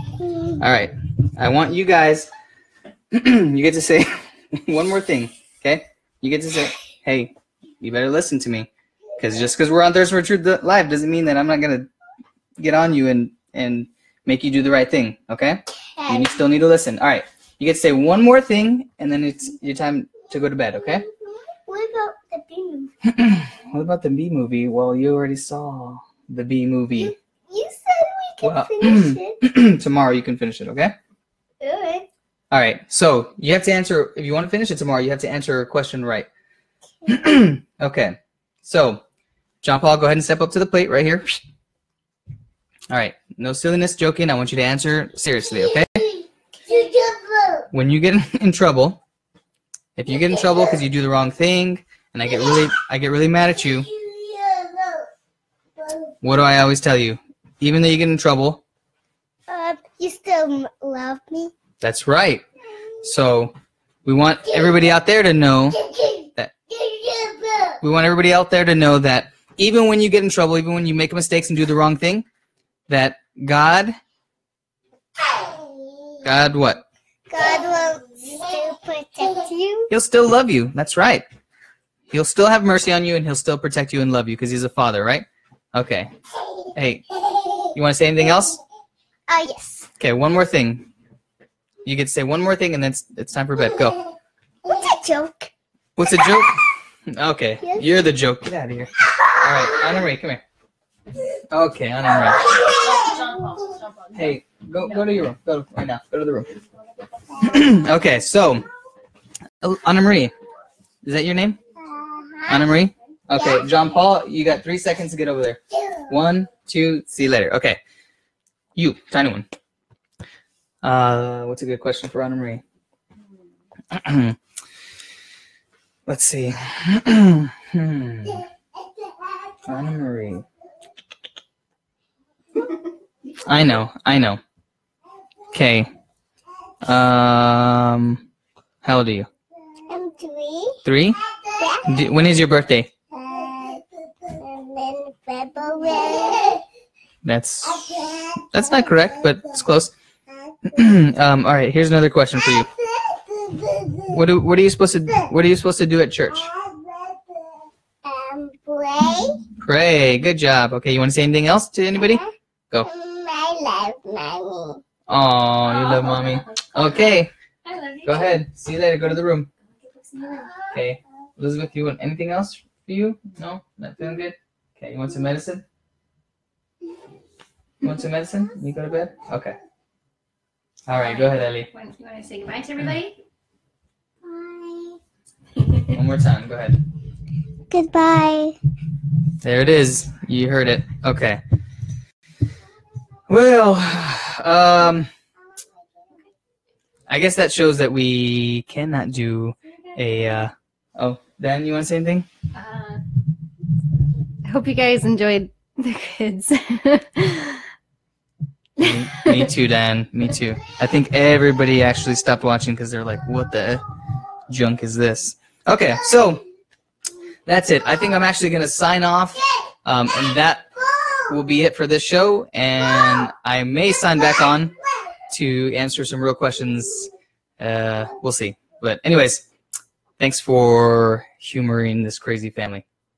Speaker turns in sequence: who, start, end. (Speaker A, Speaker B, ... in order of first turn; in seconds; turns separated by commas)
Speaker A: 0.6-2.3, Speaker A: 3.1-11.9, Speaker A: 12.6-21.0, Speaker B: 15.9-16.4, Speaker B: 20.7-21.1, Speaker B: 21.6-22.9, Speaker A: 23.1-27.1, Speaker B: 27.0-29.4, Speaker A: 28.4-30.9, Speaker B: 31.6-32.1, Speaker A: 32.5-36.3, Speaker A: 37.1-39.0, Speaker A: 39.6-41.4, Speaker A: 42.9-46.0, Speaker B: 45.8-47.7, Speaker A: 47.7-49.0, Speaker A: 50.0-53.9, Speaker B: 53.9-55.1, Speaker B: 55.8-56.1, Speaker A: 56.2-58.6, Speaker B: 59.5-61.5, Speaker A: 61.8-62.4, Speaker A: 63.0-63.5, Speaker A: 64.0-65.8, Speaker B: 65.9-67.8, Speaker A: 67.8-72.2, Speaker A: 72.9-73.9, Speaker B: 75.3-75.8, Speaker A: 76.2-76.8, Speaker B: 77.3-79.9, Speaker A: 79.9-81.2, Speaker A: 82.1-86.1, Speaker A: 86.8-87.0, Speaker A: 87.7-88.6, Speaker B: 89.3-89.9, Speaker A: 90.0-90.9, Speaker A: 91.8-94.0, Speaker B: 94.6-95.5, Speaker A: 96.0-96.6, Speaker A: 97.1-100.4, Speaker B: 97.6-97.9, Speaker A: 101.5-102.5, Speaker C: 102.7-104.3, Speaker A: 104.1-106.5, Speaker A: 107.4-108.7, Speaker A: 109.6-110.3, Speaker A: 111.0-111.6, Speaker B: 111.8-112.6, Speaker A: 112.5-117.8, Speaker A: 118.8-119.5, Speaker A: 120.8-122.6, Speaker A: 123.9-124.4, Speaker A: 126.1-128.4, Speaker A: 129.7-130.4, Speaker A: 133.4-134.4, Speaker A: 135.5-135.9, Speaker A: 136.8-138.2, Speaker A: 138.8-139.3, Speaker B: 139.9-140.8, Speaker A: 140.8-141.2, Speaker B: 141.6-142.0, Speaker A: 141.8-142.9, Speaker B: 143.1-146.6, Speaker A: 147.2-149.9, Speaker B: 147.9-149.1, Speaker A: 150.7-152.7, Speaker B: 153.0-154.1, Speaker A: 154.1-156.5, Speaker B: 156.5-157.2, Speaker B: 158.0-159.4, Speaker A: 159.6-162.9, Speaker B: 161.9-162.3, Speaker B: 162.8-164.8, Speaker A: 165.1-167.3, Speaker C: 165.6-168.4, Speaker A: 168.0-169.5, Speaker C: 169.8-170.6, Speaker A: 170.7-175.6, Speaker A: 177.8-179.6, Speaker A: 180.9-181.7, Speaker C: 181.0-183.2, Speaker B: 184.2-185.0, Speaker A: 185.8-186.8, Speaker B: 187.7-188.6, Speaker A: 189.4-191.4, Speaker A: 193.3-195.1, Speaker A: 197.1-202.3, Speaker C: 202.5-203.0, Speaker C: 204.4-207.6, Speaker A: 208.8-213.8, Speaker C: 208.8-209.5, Speaker A: 214.5-216.4, Speaker A: 217.4-220.7, Speaker A: 221.3-224.7, Speaker A: 225.3-229.4, Speaker A: 230.2-232.8